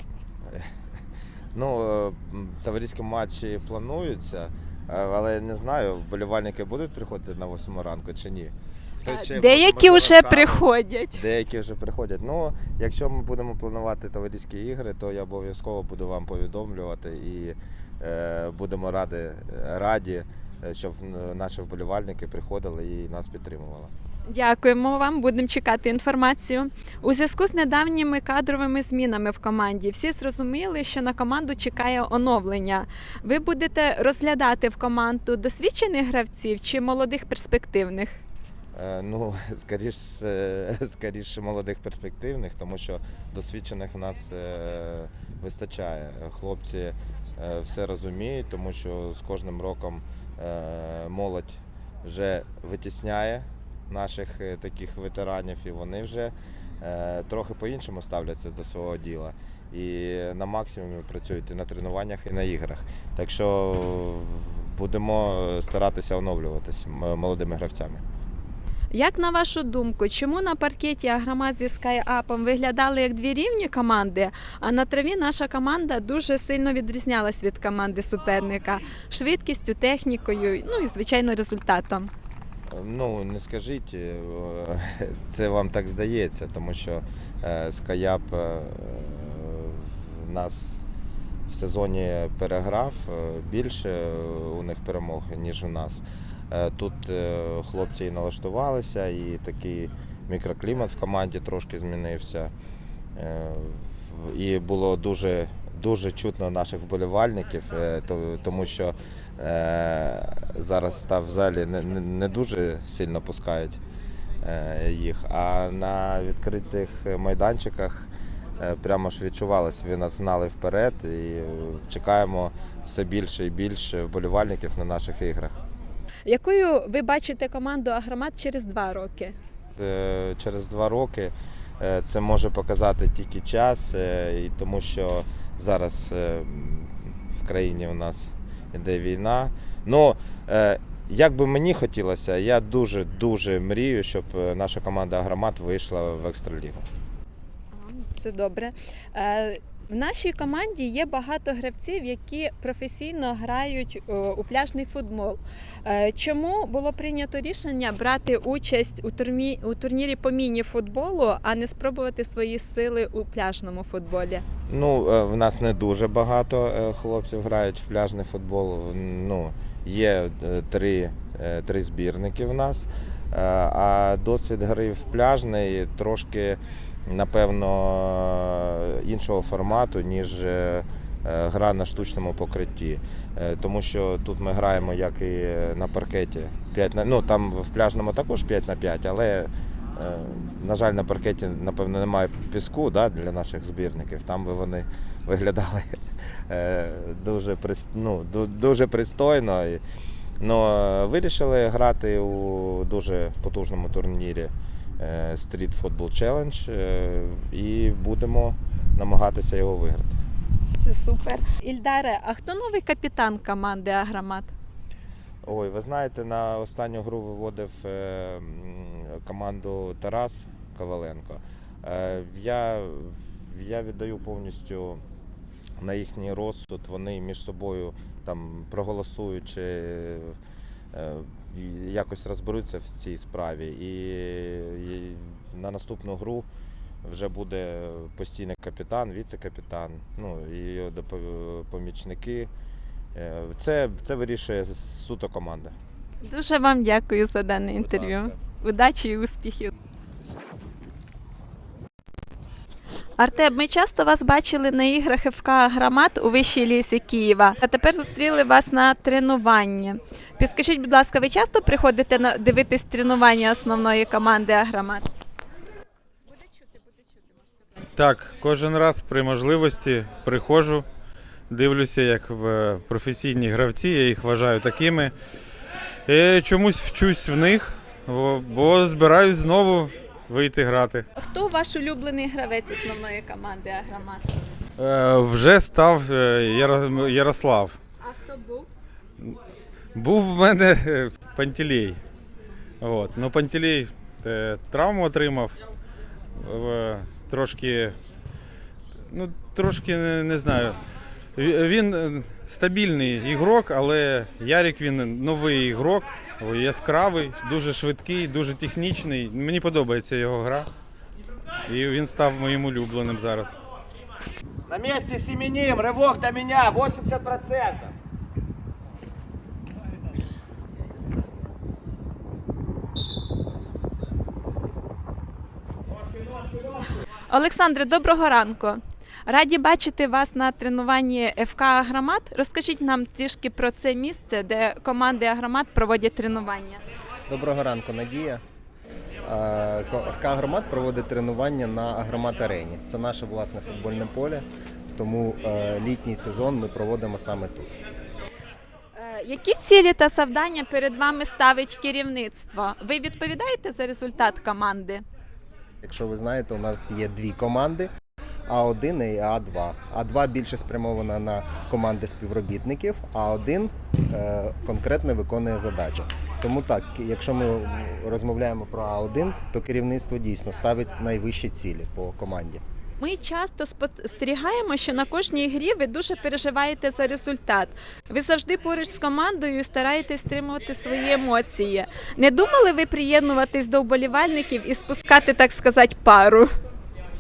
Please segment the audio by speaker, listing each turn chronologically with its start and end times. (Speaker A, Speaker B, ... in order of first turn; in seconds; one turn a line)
Speaker A: 1.5-23.9
Speaker B: 9.0-11.2
Speaker B: 24.3-38.2
Speaker A: 38.7-68.0
Speaker B: 68.9-82.1
Speaker A: 82.7-90.8
Speaker A: 91.5-102.5
Speaker A: 103.2-113.8
Speaker A: 114.4-125.6
Speaker B: 126.3-129.3
Speaker A: 129.8-146.9
Speaker B: 147.7-164.4
Speaker A: 164.7-199.8
Speaker A: 200.4-210.2
Speaker B: 210.8-214.5
Speaker A: 215.4-225.0
Speaker A: 225.8-230.4
Speaker A: 230.9-236.5
Speaker A: 237.0-242.5
Speaker A: 243.2-245.8
Speaker B: 246.2-249.7
Speaker B: 253.2-265.1
Speaker C: 267.9-270.9
Speaker C: 271.5-275.1
Speaker C: 276.1-281.1
Speaker B: 281.1-284.4
Speaker C: 284.8-287.8
Speaker B: 288.0-288.7
Speaker C: 289.9-292.0
Speaker C: 292.8-295.6
Speaker C: 296.4-298.0
Speaker C: 299.1-300.8
Speaker C: 301.4-310.7
Speaker C: 311.7-313.6
Speaker A: 314.7-315.1
Speaker D: 314.9-317.8
Speaker A: 315.9-316.2
Speaker A: 317.5-317.9
Speaker B: 327.3-336.8
Speaker E: 337.3-338.4
Speaker E: 339.2-344.4
Speaker E: 344.9-347.8
Speaker B: 348.9-355.0
Speaker E: 355.8-357.9
Speaker E: 358.5-372.6
Speaker B: 373.0-386.5